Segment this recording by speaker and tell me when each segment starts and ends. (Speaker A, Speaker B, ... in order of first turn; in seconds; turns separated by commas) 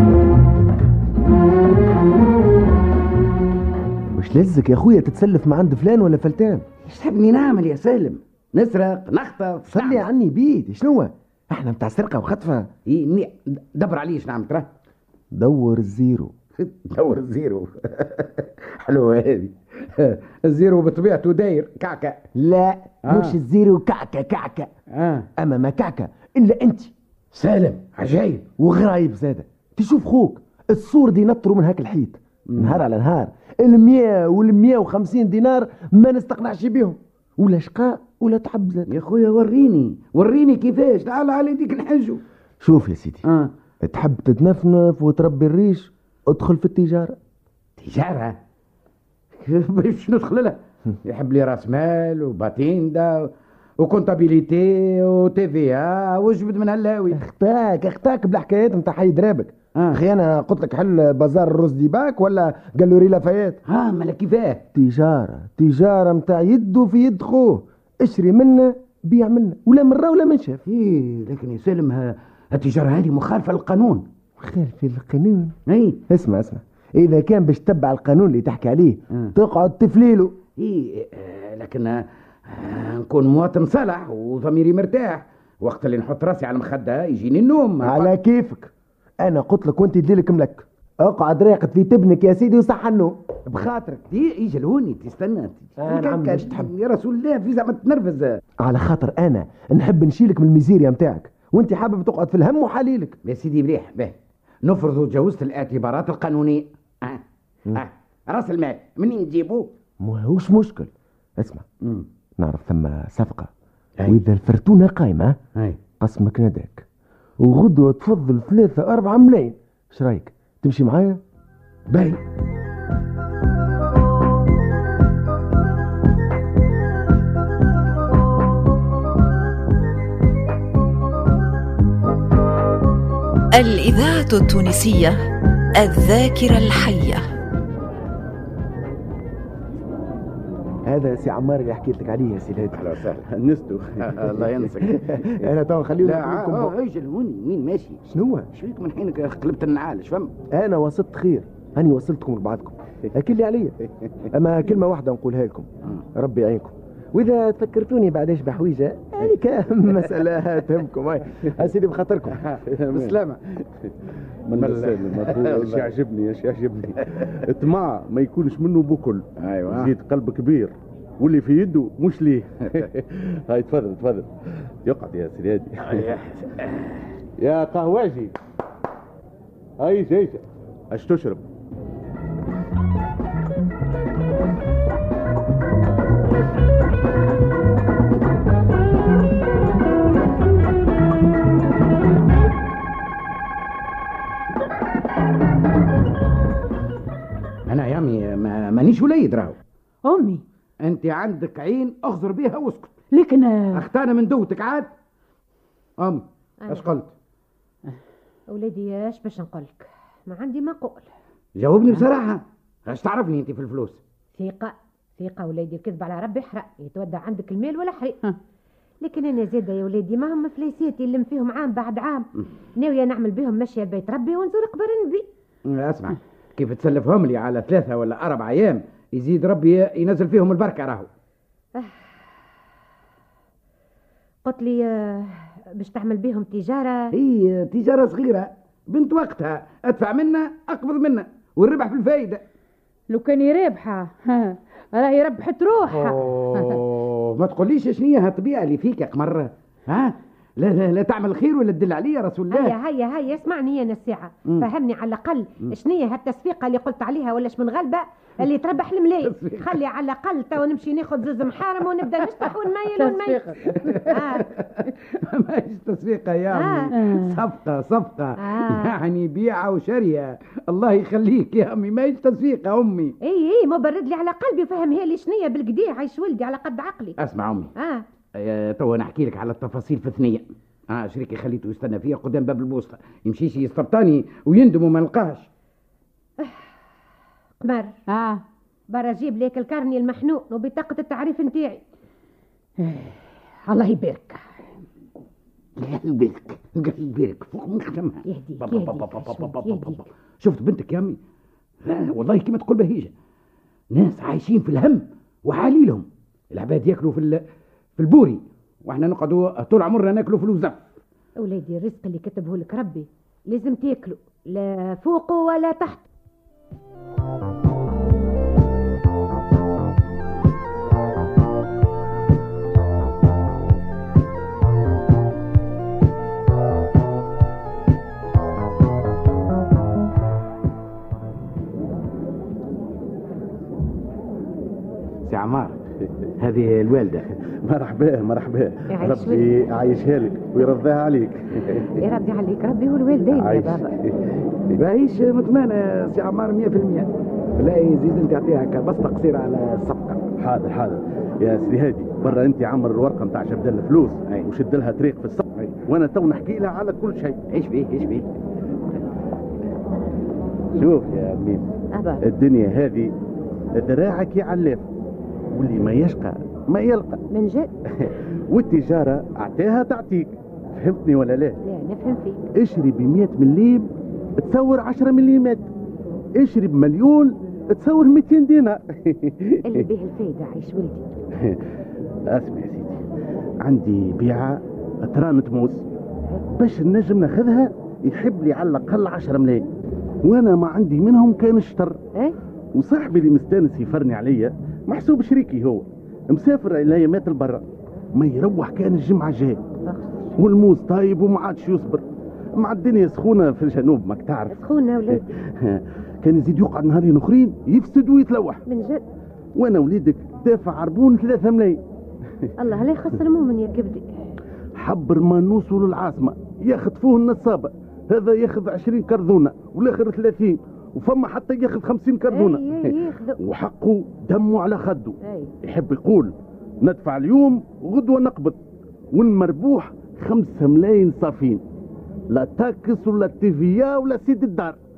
Speaker A: 4.1-6.7, Speaker B: 6.9-10.1, Speaker A: 9.7-12.7, Speaker B: 12.9-14.7, Speaker A: 15.3-16.3, Speaker B: 16.6-22.2, Speaker A: 22.4-24.7, Speaker B: 23.1-23.4, Speaker B: 24.9-25.3, Speaker A: 25.4-26.9, Speaker B: 27.3-28.4, Speaker A: 28.6-38.9, Speaker B: 32.5-32.8, Speaker B: 38.9-42.2, Speaker A: 42.6-43.3, Speaker B: 43.2-43.5, Speaker A: 43.8-47.2, Speaker B: 47.8-48.4, Speaker B: 49.5-57.2, Speaker A: 57.1-63.6, Speaker B: 59.8-60.0, Speaker B: 63.7-64.6, Speaker A: 64.7-70.6, Speaker B: 70.7-74.1, Speaker A: 74.4-75.5, Speaker B: 75.7-76.0, Speaker A: 76.1-80.4, Speaker B: 80.6-88.1, Speaker A: 87.8-93.2, Speaker B: 93.5-98.4, Speaker A: 95.8-96.7, Speaker A: 98.6-103.2, Speaker B: 103.2-107.2, Speaker B: 107.7-109.7, Speaker A: 110.0-111.6, Speaker A: 112.4-113.5, Speaker A: 114.1-115.4, Speaker A: 116.0-116.8, Speaker A: 117.4-121.2, Speaker B: 121.9-122.2, Speaker C: 133.5-135.2, Speaker C: 135.8-137.3, Speaker A: 140.9-142.9, Speaker B: 142.7-143.2, Speaker D: 143.3-144.5, Speaker B: 144.0-145.3, Speaker A: 144.9-146.8, Speaker B: 146.0-148.0, Speaker A: 148.1-148.5, Speaker B: 148.5-150.3, Speaker A: 150.5-153.8, Speaker A: 154.3-162.4, Speaker B: 162.3-163.4, Speaker D: 162.7-163.2, Speaker D: 163.9-174.3, Speaker B: 164.6-165.9, Speaker B: 169.4-169.9, Speaker D: 174.8-176.1, Speaker B: 175.9-177.0, Speaker D: 177.4-178.3, Speaker D: 179.8-181.4, Speaker B: 197.7-199.6, Speaker E: 200.1-200.4, Speaker B: 200.8-202.9, Speaker E: 203.1-203.8, Speaker B: 203.7-204.9, Speaker B: 206.0-207.1, Speaker F: 206.6-206.9, Speaker F: 208.5-211.1, Speaker B: 211.6-214.0, Speaker F: 214.3-218.2, Speaker F: 219.0-225.3, Speaker B: 225.7-231.1, Speaker F: 234.4-237.1, Speaker B: 237.1-242.4, Speaker E: 243.1-246.1, Speaker B: 245.9-252.8, Speaker F: 252.5-264.5, Speaker B: 259.2-259.8, Speaker E: 262.9-263.6, Speaker B: 263.6-273.1, Speaker F: 266.5-266.9, Speaker E: 267.0-267.3, Speaker F: 268.4-268.9, Speaker F: 273.2-277.2, Speaker B: 277.2-277.7, Speaker F: 277.8-278.0, Speaker B: 278.4-285.5, Speaker F: 287.6-287.9, Speaker E: 288.1-288.4, Speaker F: 288.9-291.8, Speaker E: 292.8-293.1, Speaker F: 293.7-294.4, Speaker B: 295.8-301.2, Speaker F: 298.2-300.0, Speaker B: 301.9-303.1, Speaker B: 303.9-307.4, Speaker B: 308.0-311.0, Speaker F: 311.4-316.1, Speaker B: 335.3-335.8, Speaker B: 336.4-337.2, Speaker D: 337.4-341.9, Speaker F: 338.9-339.5, Speaker F: 342.0-343.9, Speaker D: 343.3-343.9, Speaker B: 344.8-350.3, Speaker D: 350.4-357.4, Speaker B: 357.5-358.3, Speaker D: 360.8-361.7, Speaker F: 361.9-362.2, Speaker D: 362.2-363.1, Speaker D: 363.8-364.9, Speaker D: 365.5-367.2, Speaker F: 367.3-367.7, Speaker D: 367.9-371.6, Speaker F: 371.6-372.4, Speaker D: 372.6-373.9, Speaker D: 374.4-375.7, Speaker D: 376.4-379.8, Speaker F: 379.6-381.1, Speaker D: 382.3-383.0, Speaker D: 383.6-385.9, Speaker D: 386.6-389.7, Speaker D: 390.2-392.0, Speaker D: 392.8-399.6, Speaker F: 399.9-400.3, Speaker D: 400.4-402.0, Speaker D: 402.6-404.6, Speaker F: 404.5-405.2, Speaker D: 405.1-408.6, Speaker F: 408.7-409.0, Speaker D: 409.6-411.8, Speaker F: 412.6-414.1, Speaker D: 414.8-428.6, Speaker F: 422.3-423.4, Speaker F: 425.2-425.5, Speaker D: 429.1-431.6, Speaker D: 432.3-434.8